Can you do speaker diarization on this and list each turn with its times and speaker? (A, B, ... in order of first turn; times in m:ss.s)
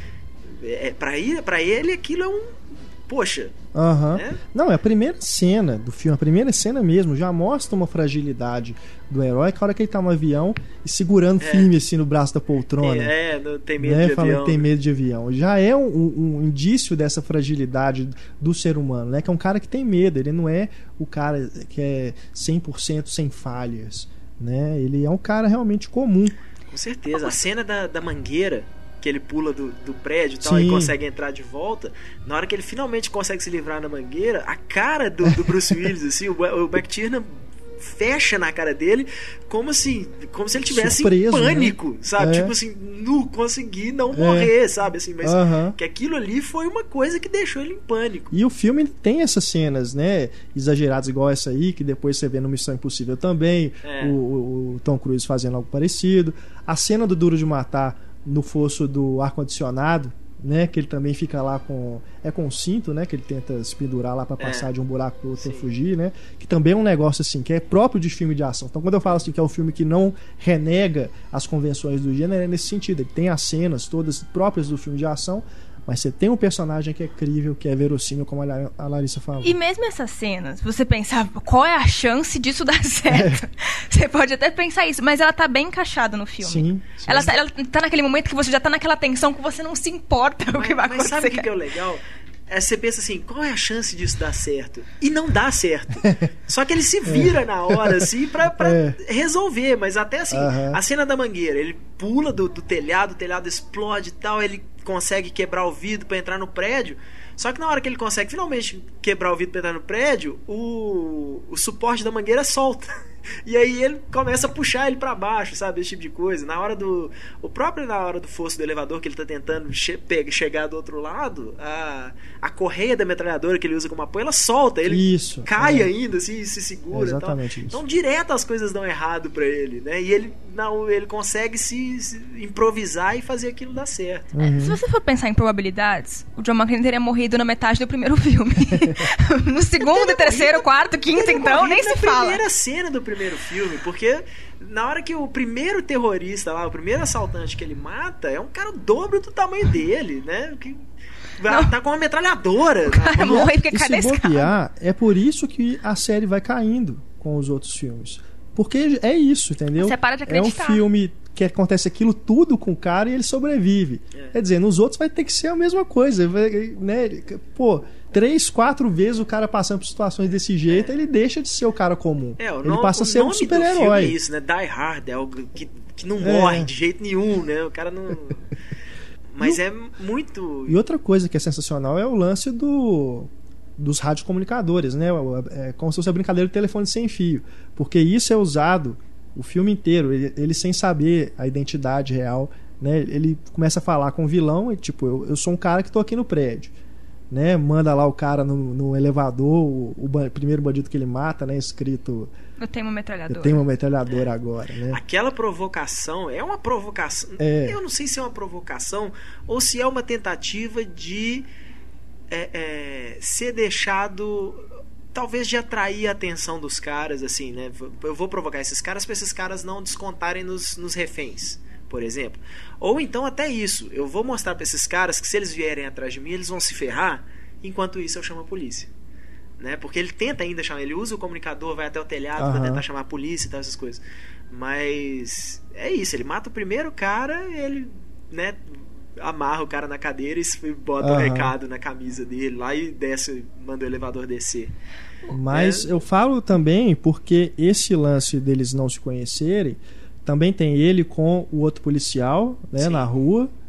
0:00.4-0:03.6 A
0:03.7-0:13.1 B
0:04.1-0:04.4 A
0:11.4-0:11.7 A
0:12.8-0:14.6 A
0:13.8-0:26.4 B
0:26.7-0:48.3 A
0:30.4-0:30.9 B
0:35.3-0:35.7 B
0:40.6-0:42.5 B
0:44.1-0:44.5 B
0:45.2-0:45.8 B
0:48.3-1:19.6 B
0:53.8-0:54.2 A
1:04.4-1:04.7 A
1:05.4-1:05.7 A
1:19.4-1:31.5 C
1:23.1-1:23.4 B
1:26.4-1:27.3 B
1:30.5-2:14.4 A
1:37.0-1:39.0 B
1:40.3-1:40.8 B
2:04.9-2:05.9 B
2:06.9-2:07.8 B
2:14.3-2:14.8 B
2:14.4-2:22.4 C
2:19.8-2:30.8 A
2:31.4-2:33.5 A
2:31.4-2:31.7 C
2:32.9-2:34.5 C
2:33.2-2:54.2 B
2:39.8-2:40.8 C
2:52.4-2:58.5 A
2:56.2-2:56.7 B
2:59.3-3:00.8 A
3:00.7-3:16.7 B
3:17.3-3:22.3 B
3:22.6-3:23.6 C
3:23.3-3:25.0 B
3:24.0-3:24.3 A
3:24.9-3:31.5 A
3:27.4-3:27.8 B
3:32.3-3:48.9 A
3:49.6-4:04.7 A
3:52.4-3:52.8 B
4:01.0-4:01.5 B
4:05.3-4:13.5 B
4:05.5-4:05.9 A
4:12.8-4:13.1 A